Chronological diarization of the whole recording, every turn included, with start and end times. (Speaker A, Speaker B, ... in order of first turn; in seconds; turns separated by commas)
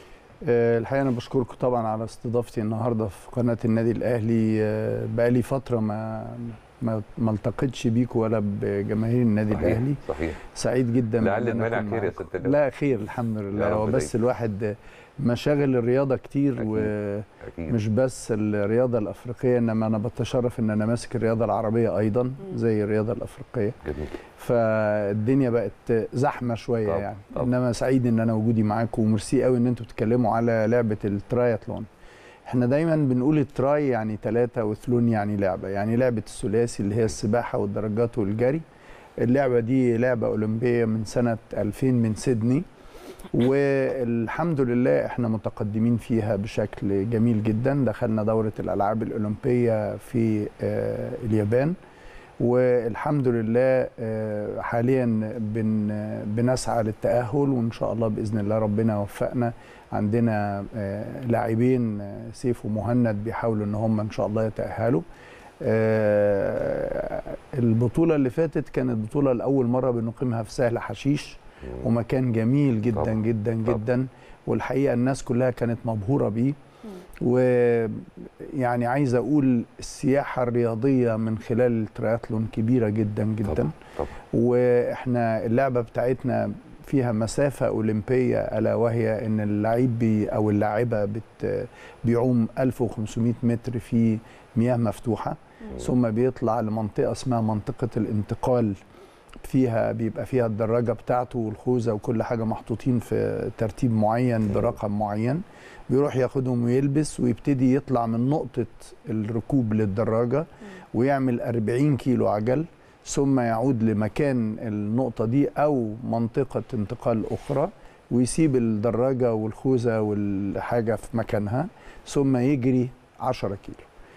Speaker A: 0.4-23.8, Speaker B: 9.5-10.4, Speaker B: 11.2-12.6, Speaker B: 13.5-14.1, Speaker B: 17.4-17.8, Speaker B: 23.9-24.1, Speaker A: 24.4-31.9, Speaker B: 26.9-27.5, Speaker A: 32.5-38.6, Speaker A: 39.2-42.6, Speaker A: 43.3-51.8, Speaker A: 52.4-65.0, Speaker A: 65.6-76.5, Speaker B: 73.0-73.8, Speaker A: 77.2-83.7, Speaker B: 83.5-84.1, Speaker A: 84.3-98.8, Speaker A: 99.4-123.8